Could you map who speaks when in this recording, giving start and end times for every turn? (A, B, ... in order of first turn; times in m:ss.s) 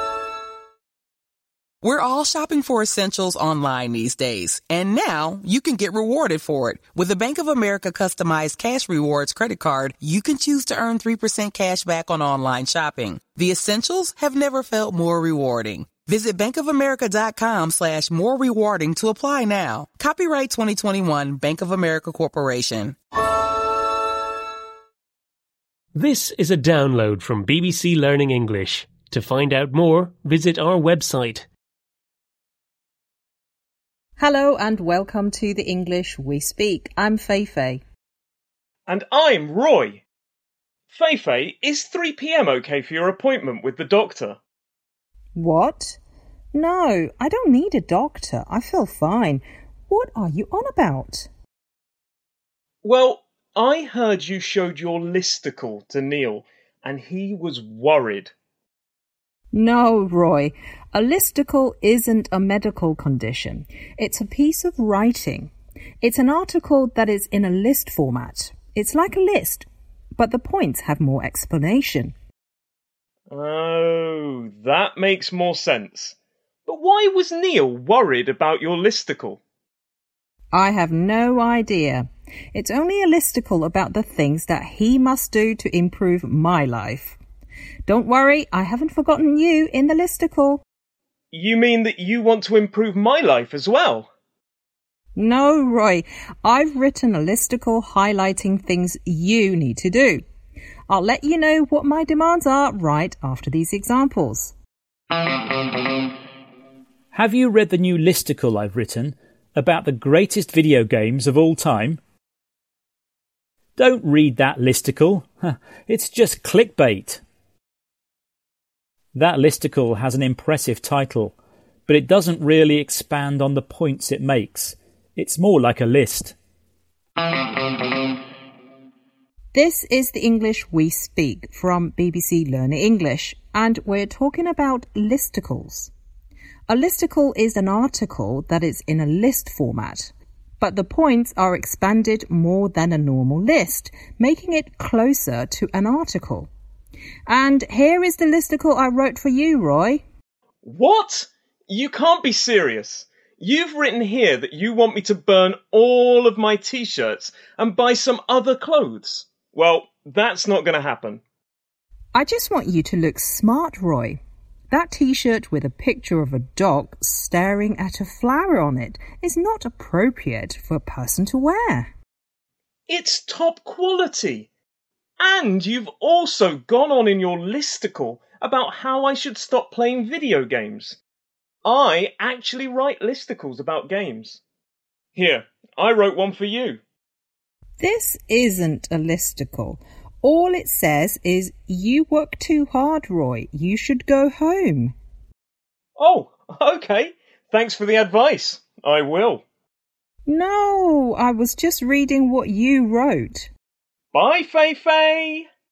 0:01.8-0:23.0 A
0:25.9-0:31.5 B
0:34.2-0:37.8 C
0:38.9-0:40.0 D
0:40.9-0:44.4 D
0:45.4-0:46.0 C
0:46.5-0:51.3 C
0:52.8-0:58.3 D
0:59.5-1:12.1 C
1:13.3-1:16.1 D
1:16.6-1:19.4 D
1:20.5-1:27.2 C
1:27.9-1:30.6 C
1:31.3-1:34.1 D
1:35.2-1:40.2 C
1:40.9-1:44.5 C
1:47.1-1:52.0 E
1:53.8-1:57.2 E
1:59.1-2:01.4 E
2:01.9-2:06.4 E
2:09.5-2:15.9 C
2:16.7-2:26.5 C
2:27.3-2:30.0 C
2:30.6-2:41.2 D
2:42.1-2:44.2 C
2:44.7-2:51.9 C
2:52.9-2:54.5 D
2:55.2-3:01.0 D
3:01.6-3:04.4 D
3:05.1-3:06.8 D
3:07.8-3:15.0 C
3:16.0-3:19.4 D
3:20.2-3:23.5 C
3:24.1-3:25.4 D